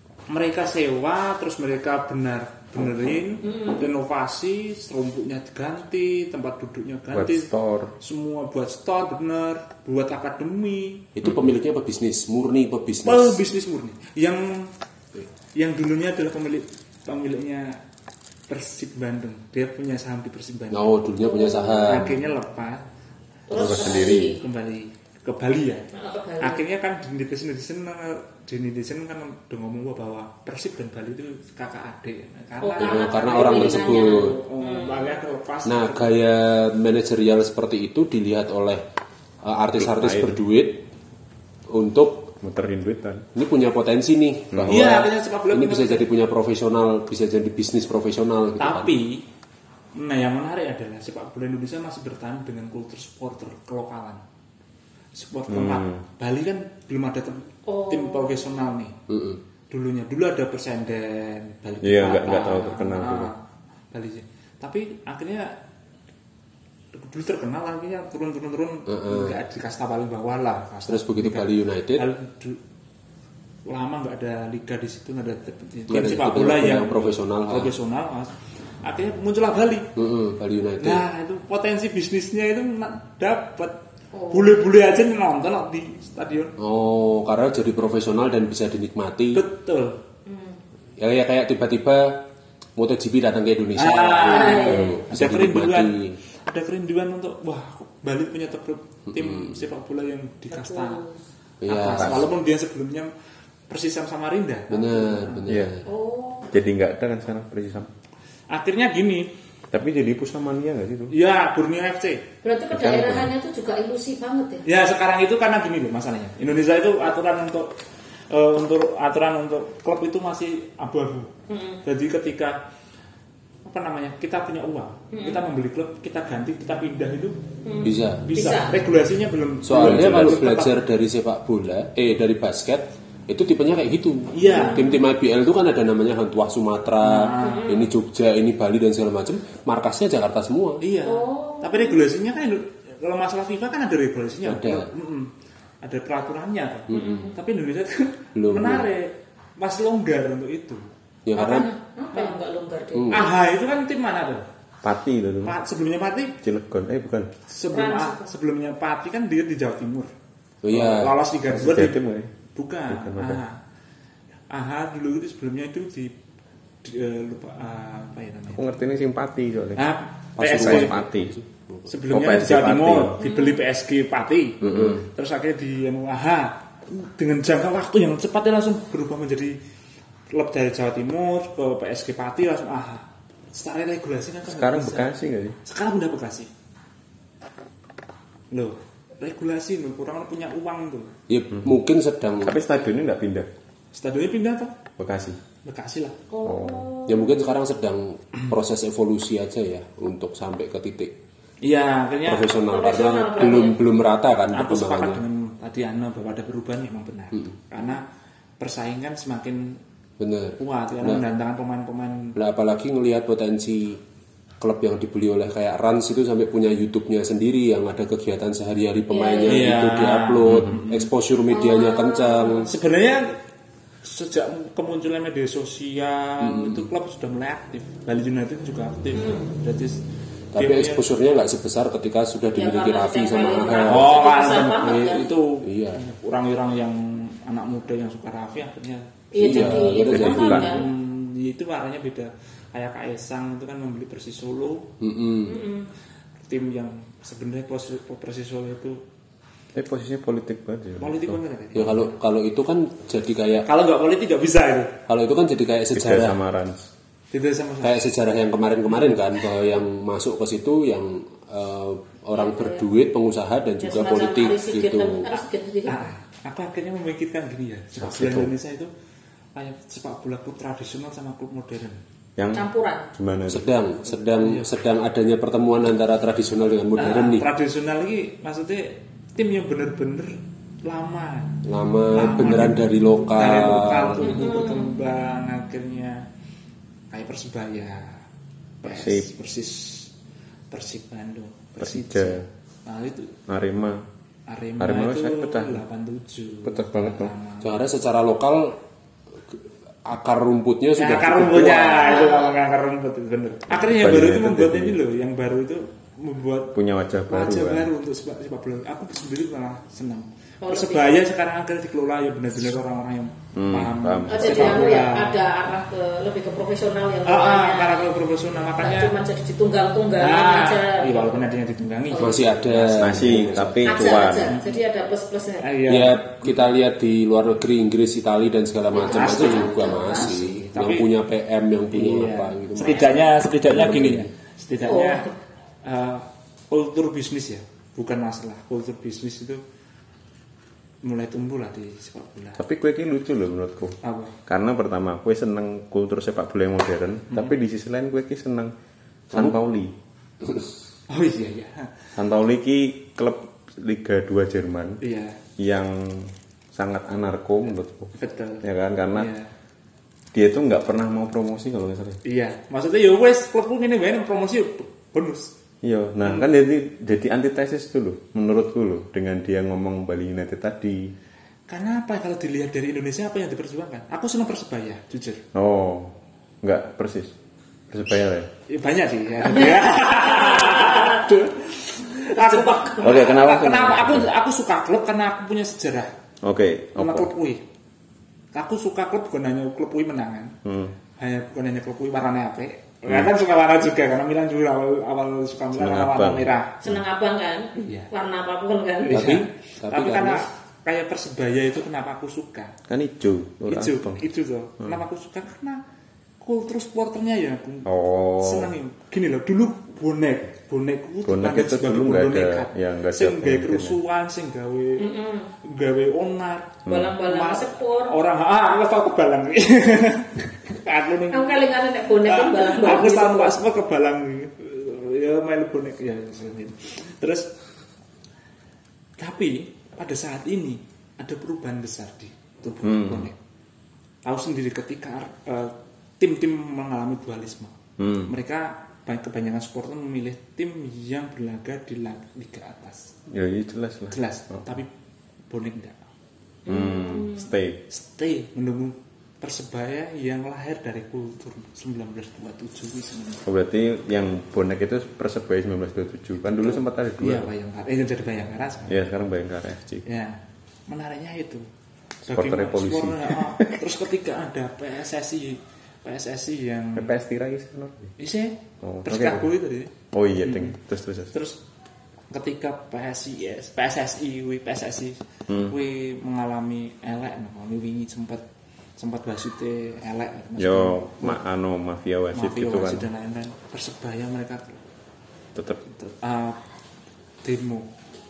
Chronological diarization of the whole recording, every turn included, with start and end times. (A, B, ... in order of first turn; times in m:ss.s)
0:00.3-0:11.1 A
0:03.4-0:03.8 B
0:07.1-0:08.0 C
0:11.2-0:13.4 D
0:13.0-0:14.7 A
0:15.6-0:17.8 A
0:18.5-0:21.0 A
0:20.7-0:22.1 D
0:21.2-0:22.3 B
0:21.9-0:22.9 A
0:23.5-0:24.4 B
0:23.5-0:24.4 C
0:24.4-0:36.2 A
0:25.9-0:26.6 B
0:32.6-0:35.2 B
0:32.8-0:34.4 D
0:35.6-0:38.8 D
0:39.4-0:40.8 D
0:39.8-0:40.4 C
0:41.7-0:42.3 D
0:42.4-0:43.2 C
0:43.3-0:48.9 D
0:44.5-0:44.9 C
0:44.7-0:46.1 A
0:48.6-0:49.2 A
0:49.9-0:54.2 A
0:55.2-0:59.0 A
0:55.5-0:56.0 C
0:57.7-0:58.4 B
0:59.1-0:59.4 D
0:59.7-1:03.4 A
1:01.8-1:03.3 C
1:03.9-1:05.6 A
1:06.9-1:12.6 A
1:08.9-1:09.4 D
1:10.9-1:12.1 D
1:13.7-1:19.9 A
1:15.9-1:17.7 D
1:20.0-1:21.0 D
1:20.8-1:23.8 A
1:24.1-1:24.6 B
1:24.3-1:26.6 A
1:26.6-1:29.4 D
1:29.3-1:30.0 A
1:30.3-1:30.6 B
1:31.0-1:36.2 D
1:33.8-1:36.0 A
1:34.2-1:35.0 B
1:36.5-1:41.0 A
1:39.1-1:39.6 D
1:40.5-1:41.2 B
1:41.6-1:42.3 D
1:41.7-1:43.1 A
1:41.9-1:42.2 C
1:43.7-1:45.5 A
1:44.7-1:45.9 D
1:45.9-1:46.5 B
1:46.5-1:47.9 C
1:48.5-1:49.3 A
1:49.7-1:51.1 C
1:51.1-1:52.3 A
1:52.4-1:54.7 B
1:52.7-1:53.2 D
1:52.9-1:53.2 C
1:54.6-1:57.8 A
1:58.3-2:02.6 A
2:01.5-2:01.8 B
2:03.6-2:07.4 A
2:05.1-2:05.4 B
2:07.6-2:08.8 B
2:07.8-2:08.3 D
2:08.3-2:10.8 A
2:09.6-2:20.8 D
2:09.7-2:10.2 C
2:14.3-2:14.9 A
2:14.5-2:15.0 B
2:17.0-2:17.7 A
2:17.4-2:17.9 B
2:20.8-2:30.8 A
2:21.0-2:22.1 B
2:24.4-2:24.9 D
2:26.9-2:27.3 D
2:26.9-2:27.4 B
2:28.4-2:28.9 D
2:31.3-2:31.7 D
2:31.4-2:33.3 B
2:32.1-2:32.4 A
2:32.9-2:33.2 D
2:33.1-2:34.5 A
2:34.8-2:35.6 C
2:35.4-2:36.4 A
2:36.4-2:37.3 C
2:37.5-2:40.1 A
2:37.7-2:38.3 B
2:40.6-2:41.2 D
2:40.7-2:42.0 A
2:41.5-2:42.4 C
2:42.5-2:43.6 A
2:42.9-2:43.4 C
2:44.5-2:46.2 A
2:46.8-2:48.7 A
2:48.5-2:49.8 C
2:49.8-2:50.9 A
2:50.4-2:51.9 D
2:50.4-2:51.3 C
2:51.9-2:59.6 A
2:52.1-2:53.2 C
2:53.2-2:53.6 B
2:54.6-2:55.0 D
2:54.6-2:55.0 C
3:00.3-3:05.1 A
3:04.5-3:05.6 C
3:05.6-3:06.5 A
3:08.5-3:11.2 A
3:11.3-3:12.6 D
3:12.4-3:13.5 C
3:13.9-3:14.7 A
3:15.0-3:15.4 C
3:15.6-3:16.2 A
3:16.3-3:17.4 B
3:16.4-3:16.9 C
3:17.1-3:21.2 D
3:21.6-3:22.6 A
3:22.3-3:25.2 D
3:22.7-3:23.8 B
3:24.5-3:28.1 A
3:28.6-3:29.8 A
3:30.2-3:31.2 D
3:30.6-3:32.4 A
3:32.4-3:34.0 D
3:34.6-3:42.7 D
3:39.1-3:39.7 B
3:39.5-3:41.1 A
3:41.5-3:42.7 B
3:42.7-3:43.4 A
3:44.0-3:50.0 A
3:46.4-3:46.9 D
3:49.1-3:49.5 B
3:50.5-3:56.0 D
3:50.6-3:51.1 A
3:52.6-3:55.3 B
3:53.8-4:00.0 A
3:59.3-4:00.9 B
3:59.4-4:00.8 D
4:00.0-4:00.7 C
4:00.6-4:04.9 A
4:05.0-4:05.6 D
4:05.4-4:05.9 B
4:06.4-4:09.0 A
4:09.8-4:11.4 C
4:11.0-4:12.1 A
4:11.7-4:13.7 D
4:13.6-4:15.0 A
4:15.1-4:16.4 D
4:15.9-4:16.9 C
4:17.3-4:18.1 A
4:17.8-4:25.4 D
4:22.3-4:22.8 B
4:23.8-4:26.0 B
4:25.9-4:28.9 A
4:28.0-4:28.5 D
4:29.6-4:32.0 A
4:32.4-4:33.6 C
4:32.5-4:33.1 B
4:33.5-4:37.5 D
4:34.4-4:34.7 A
4:37.0-4:41.6 A
4:41.6-4:44.4 D
4:42.1-4:46.2 A
4:44.2-4:45.0 B
4:47.1-4:48.2 A
4:48.8-4:50.1 A
4:48.8-4:49.3 C
4:50.7-4:53.4 A
4:51.8-4:52.4 C
4:53.5-4:54.0 C
4:54.5-4:57.8 A
4:54.8-4:55.8 C
4:56.6-4:57.3 C
4:57.6-4:58.8 D
4:59.5-5:02.2 D
5:01.0-5:06.7 A
5:02.0-5:02.6 B
5:03.7-5:05.0 C
5:06.7-5:07.9 C
5:07.3-5:15.4 A
5:10.6-5:11.2 B
5:13.6-5:15.0 C
5:14.3-5:18.1 B
5:17.2-5:19.2 A
5:18.8-5:21.5 B
5:20.2-5:23.3 A
5:22.1-5:22.5 B
5:22.2-5:24.1 D
5:23.0-5:24.6 C
5:23.8-5:25.8 B
5:24.5-5:24.8 A
5:25.6-5:26.6 A
5:25.9-5:33.1 D
5:28.9-5:30.4 B
5:29.0-5:31.1 A
5:31.9-5:35.3 A
5:33.7-5:34.3 D
5:34.8-5:35.4 B
5:35.8-5:39.6 A
5:41.0-5:42.6 A
5:42.6-5:48.7 C
5:44.0-5:44.3 A
5:49.3-5:49.9 C
5:50.4-5:50.7 D
5:51.1-5:51.9 A
5:52.2-5:55.0 C
5:55.0-5:55.4 A
5:55.6-5:59.3 C
5:58.2-5:59.5 A
6:00.3-6:02.2 C
6:02.2-6:05.5 A
6:05.8-6:11.1 C
6:11.7-6:15.4 A
6:15.5-6:17.3 C
6:17.9-6:18.5 C
6:18.7-6:26.1 A
6:19.6-6:21.3 B
6:22.3-6:23.4 B
6:23.0-6:24.3 C
6:26.4-6:27.3 C
6:27.0-6:27.6 A
6:28.5-6:30.6 A
6:30.6-6:30.9 C
6:31.2-6:36.8 A
6:35.8-6:37.0 C
6:36.8-6:39.3 B
6:37.8-6:38.1 A
6:39.0-6:42.8 A
6:39.1-6:40.5 D
6:42.9-6:44.2 C
6:43.7-6:45.8 A
6:46.4-7:01.7 A
6:47.9-6:48.7 C
6:51.2-6:54.0 C
6:55.0-6:55.5 B
6:56.9-6:57.2 C
6:56.9-6:58.1 B
7:01.3-7:03.6 B
7:02.2-7:07.5 A
7:09.2-7:13.4 A
7:12.8-7:13.3 C
7:14.2-7:23.1 A
7:18.0-7:18.3 C
7:23.3-7:24.6 C
7:24.1-7:24.9 A
7:25.5-7:26.0 A
7:26.7-7:27.5 B
7:26.7-7:27.8 C
7:27.9-7:33.4 A
7:33.4-7:37.5 C
7:36.6-7:39.0 A
7:38.9-7:40.0 C
7:40.0-7:41.7 A
7:42.3-7:43.8 C
7:42.3-7:47.1 A
7:47.0-7:48.1 C
7:48.2-7:50.8 A
7:48.8-7:49.5 C
7:50.1-7:51.3 C
7:51.3-7:51.6 A
7:52.3-7:58.4 A
7:55.5-7:55.8 C
7:59.0-8:01.4 A
8:00.6-8:03.1 C
8:02.3-8:04.8 A
8:05.6-8:05.8 C
8:05.9-8:06.6 A
8:07.4-8:07.9 A